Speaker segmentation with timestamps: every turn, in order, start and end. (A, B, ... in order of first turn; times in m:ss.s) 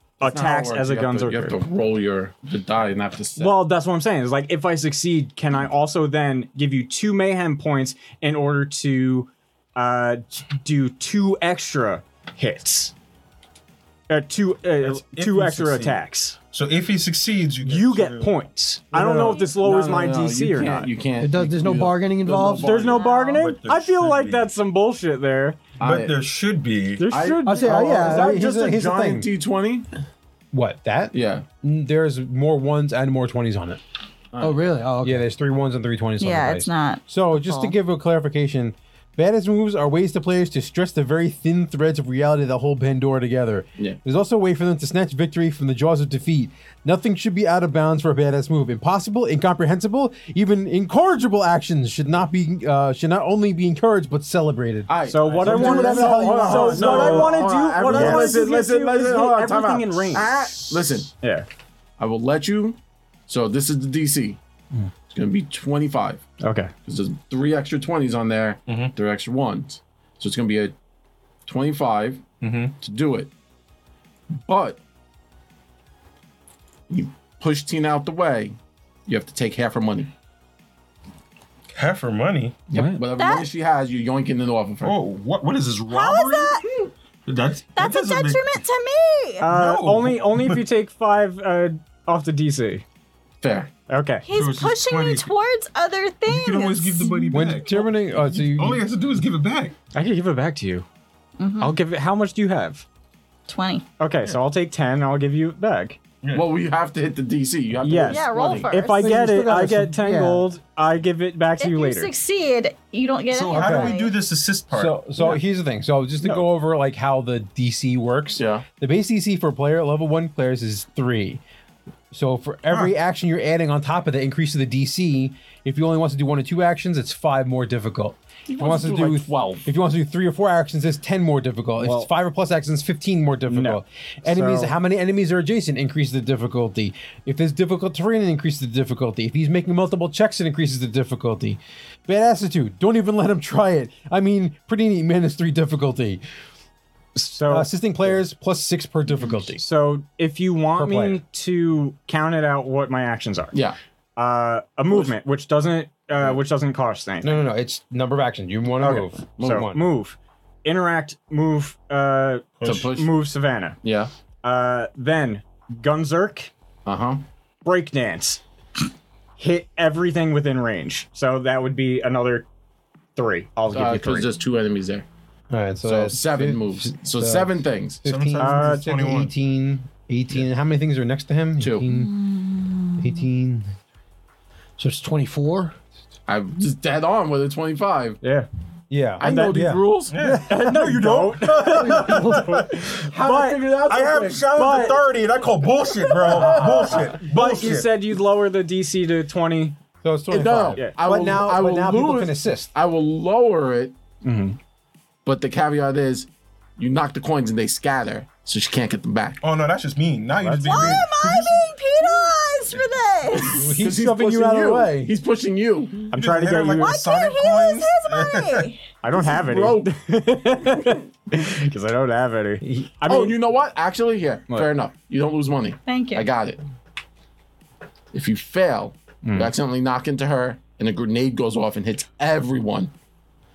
0:00.2-0:01.6 A
0:00.2-0:03.6 B
0:03.4-0:12.9 A
0:14.1-0:16.4 A
0:14.8-0:18.4 C
0:17.6-0:21.0 A
0:18.9-0:19.4 C
0:19.2-0:19.5 D
0:19.4-0:23.1 B
0:21.2-0:22.7 E
0:22.5-0:25.7 A
0:22.9-0:23.5 D
0:23.4-0:24.5 C
0:25.8-0:26.2 B
0:25.8-0:27.1 C
0:27.0-0:28.1 A
0:27.1-0:29.9 B
0:27.4-0:28.8 E
0:27.7-0:29.3 F
0:30.5-0:33.8 F
0:31.1-0:31.4 B
0:34.3-0:34.6 B
0:34.4-0:35.3 E
0:35.0-0:57.3 F
0:36.2-0:37.7 D
0:54.9-1:01.1 B
0:55.1-1:01.5 A
0:57.9-0:58.4 F
1:02.0-1:04.4 B
1:05.1-1:06.3 B
1:06.4-1:06.7 A
1:06.8-1:10.7 B
1:08.7-1:08.9 C
1:11.5-1:12.3 B
1:12.4-1:12.8 C
1:12.8-1:13.3 B
1:14.4-1:14.8 B
1:16.9-1:20.1 B
1:21.7-1:22.7 C
1:22.7-1:23.1 A
1:22.7-1:25.0 B
1:23.2-1:23.5 D
1:24.8-1:26.6 C
1:25.9-1:26.7 D
1:27.3-1:28.5 C
1:27.8-1:29.5 D
1:29.4-1:32.8 A
1:29.5-1:30.6 C
1:33.4-1:33.7 B
1:33.9-1:34.3 A
1:34.3-1:37.5 D
1:34.3-1:35.3 C
1:36.3-1:39.8 C
1:37.3-1:38.8 F
1:37.6-1:37.9 A
1:39.9-1:40.9 A
1:41.4-1:41.8 D
1:41.6-1:42.8 A
1:43.5-1:43.9 D
1:44.0-1:46.0 A
1:46.2-1:46.5 C
1:46.3-1:48.8 B
1:47.8-1:52.1 A
1:48.1-1:49.2 D
1:49.0-1:50.5 E
1:51.6-1:54.2 D
1:53.3-1:55.0 C
1:53.5-1:54.0 F
1:54.7-2:01.4 F
1:56.2-1:56.5 A
1:58.4-1:58.6 B
2:02.1-2:26.2 F
2:02.7-2:02.9 C
2:08.5-2:09.7 B
2:11.8-2:12.1 A
2:13.5-2:14.8 A
2:27.2-2:27.7 A
2:27.5-2:29.6 F
2:29.5-2:33.6 A
2:30.8-2:31.2 F
2:34.2-2:37.4 A
2:37.2-2:39.8 F
2:38.8-2:43.8 A
2:42.6-2:42.9 C
2:42.6-2:43.1 B
2:43.8-2:44.1 B
2:44.4-2:46.5 A
2:46.9-2:47.2 B
2:47.6-2:48.4 A
2:49.4-2:52.5 A
2:53.2-2:54.4 A
2:53.7-2:55.1 B
2:55.5-3:02.2 F
2:55.8-2:58.0 B
2:58.0-2:59.3 C
2:58.4-2:58.9 A
3:01.6-3:01.8 B
3:01.9-3:03.0 D
3:03.0-3:03.7 F
3:04.8-3:05.8 E
3:06.3-3:08.2 B
3:08.2-3:08.5 A
3:08.9-3:09.8 F
3:09.2-3:10.3 B
3:09.2-3:09.7 A
3:10.1-3:12.9 C
3:10.3-3:13.7 A
3:12.9-3:14.5 B
3:13.8-3:17.9 C
3:14.5-3:15.0 A
3:16.1-3:19.8 A
3:16.2-3:17.2 B
3:20.0-3:22.7 F
3:20.3-3:24.0 B
3:24.2-3:24.6 A
3:25.2-3:29.4 B
3:29.4-3:31.4 C
3:30.4-3:31.1 A
3:30.7-3:33.8 D
3:33.3-3:36.1 B
3:33.6-3:35.2 F
3:36.1-3:37.0 A
3:36.1-3:38.7 C
3:36.8-3:38.8 D
3:39.0-3:43.4 A
3:39.1-3:39.9 B
3:42.6-3:42.9 F
3:43.1-3:46.6 B
3:45.9-3:46.3 D
3:48.1-3:52.9 B
3:49.2-3:49.5 A